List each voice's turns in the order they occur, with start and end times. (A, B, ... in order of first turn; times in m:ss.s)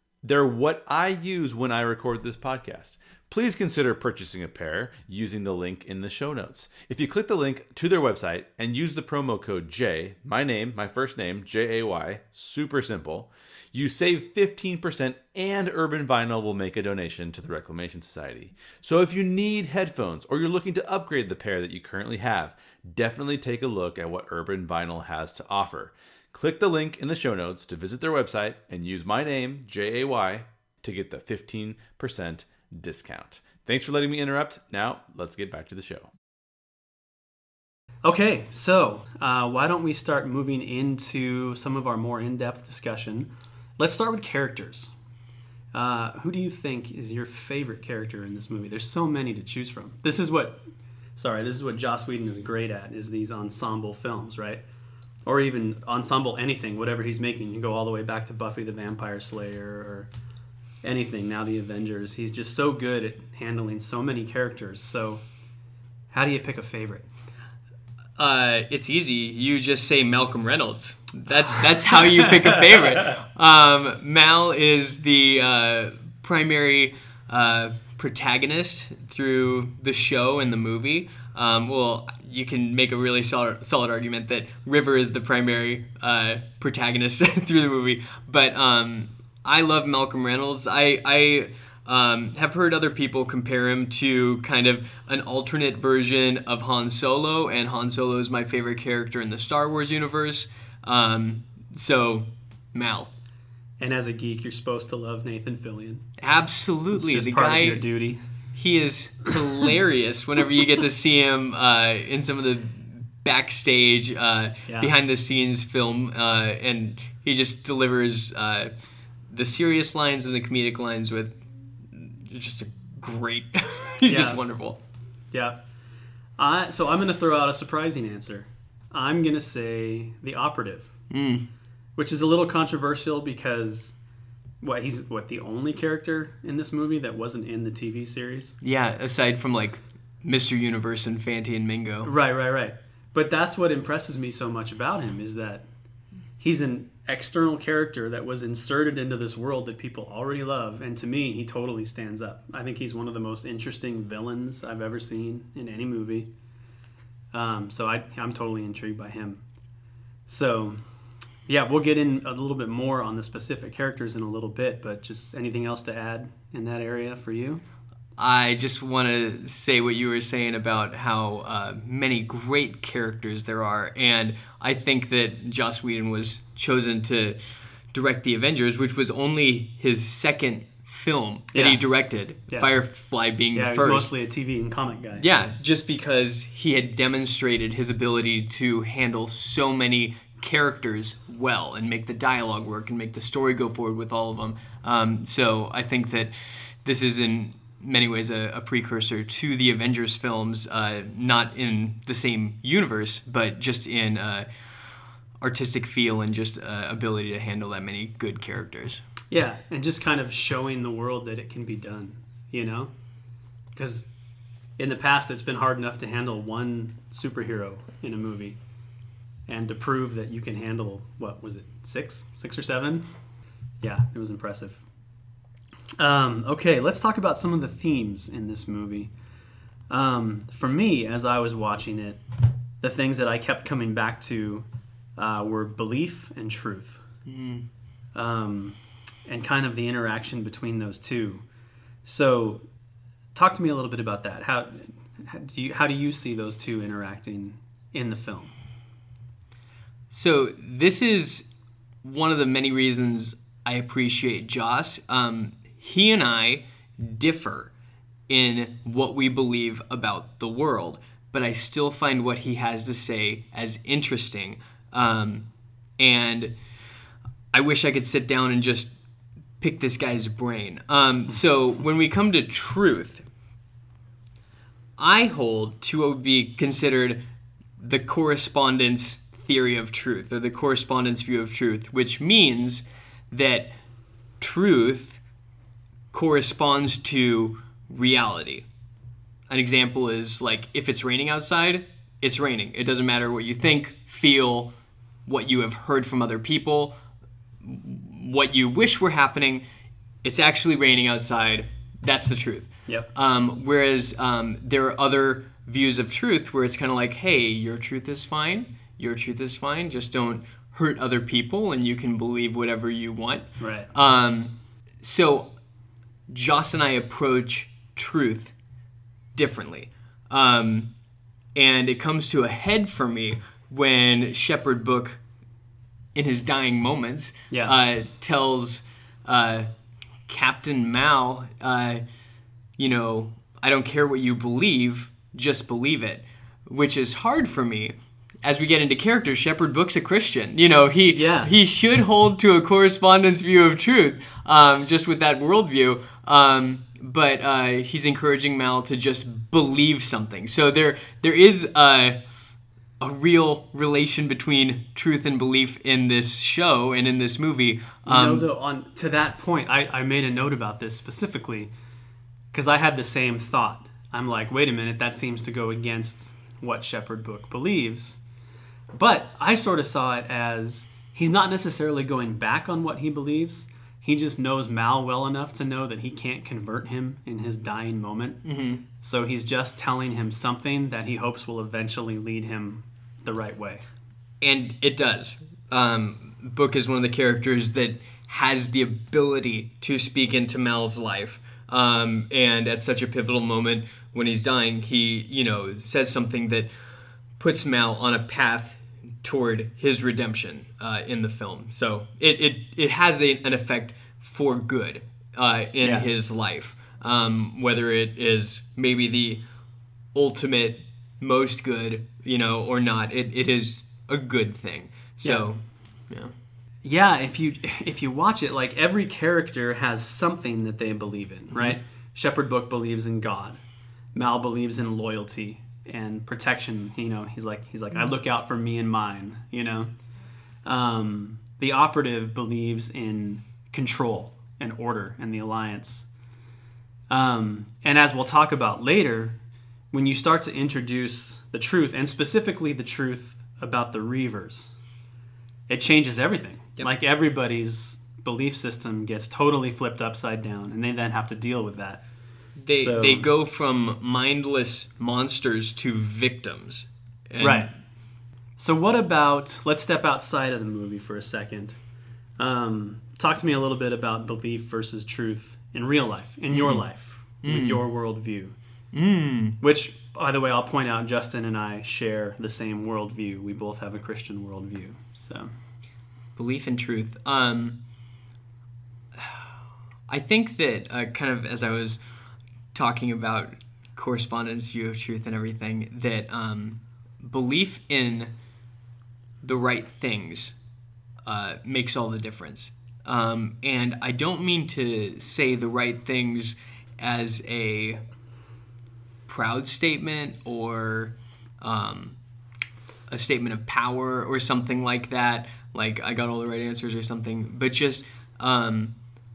0:00.2-0:36.1 A
0:38.0-0:44.9 B
0:45.7-0:50.6 B
0:51.2-0:54.6 B
0:55.2-1:00.1 B
1:00.8-1:05.2 B
1:06.1-1:07.1 B
1:08.2-1:43.1 C
1:11.6-1:13.1 B
1:43.8-1:46.1 B
1:46.2-1:47.8 C
1:46.9-1:48.2 B
1:48.5-1:58.7 C
1:54.7-1:54.9 B
1:59.3-2:01.4 C
2:01.9-2:04.8 C
2:04.1-2:04.4 B
2:05.3-2:05.6 B
2:06.4-2:10.9 B
2:11.1-2:11.5 C
2:12.0-2:14.0 B
2:14.6-2:18.6 B
2:18.6-2:22.1 C
2:22.0-2:25.7 B
2:26.4-2:36.3 B
2:37.3-2:39.4 B
2:40.3-2:40.8 B
2:41.5-2:47.6 B
2:48.2-2:57.4 C
2:57.9-3:04.1 C
3:01.5-3:01.8 B
3:03.5-3:05.3 B
3:05.2-3:16.3 C
3:16.8-3:24.5 C
3:25.4-3:29.0 C
3:29.3-3:32.9 B
3:33.7-3:34.1 B
3:34.8-3:38.6 B
3:39.5-3:43.1 B
3:43.8-3:44.8 B
3:46.0-3:49.1 B
3:49.9-3:52.2 B
3:52.8-3:57.0 B
3:57.3-3:57.6 C
3:58.1-4:01.4 B
4:02.0-4:02.6 B
4:03.3-4:08.5 B
4:10.1-4:11.5 C
4:12.0-4:17.7 C
4:18.3-4:25.5 C
4:26.0-4:26.5 C
4:27.5-4:28.9 C
4:29.6-4:33.2 C
4:35.0-4:37.2 C
4:37.8-4:43.7 C
4:44.4-4:45.2 C
4:46.1-4:48.6 C
4:49.5-4:54.7 C
4:55.2-4:57.0 C
4:57.6-4:59.6 C
5:00.2-5:15.5 C
5:13.6-5:13.9 B
5:16.3-5:18.5 C
5:19.3-5:20.9 C
5:21.5-5:25.2 C
5:26.1-5:29.7 C
5:27.5-5:27.7 B
5:30.3-5:32.0 C
5:32.8-5:52.2 C
5:41.1-5:41.5 B
5:53.0-5:58.4 C
5:58.0-6:01.7 B
6:02.5-6:08.2 B
6:08.9-6:18.4 B
6:18.4-6:18.8 C
6:19.0-6:23.8 B
6:24.4-6:36.7 C
6:37.4-6:49.4 C
6:45.8-6:46.1 B
6:50.1-6:56.3 C
6:56.8-7:03.6 B
7:01.5-7:01.8 C
7:04.1-7:09.9 B
7:10.6-7:16.1 B
7:17.1-7:19.4 B
7:19.9-7:24.7 B
7:25.7-7:32.0 B
7:32.6-7:37.7 C
7:32.7-7:33.2 B
7:37.4-7:37.7 B
7:38.6-7:41.8 B
7:42.4-7:48.6 B
7:46.5-7:46.8 C
7:47.4-7:47.8 C
7:48.9-7:49.6 C
7:49.6-7:55.5 B
7:56.4-7:57.8 C
8:00.1-8:02.0 C
8:02.7-8:08.3 C
8:09.4-8:10.6 C
8:11.2-8:18.0 C
8:19.3-8:22.2 C
8:23.1-8:28.9 C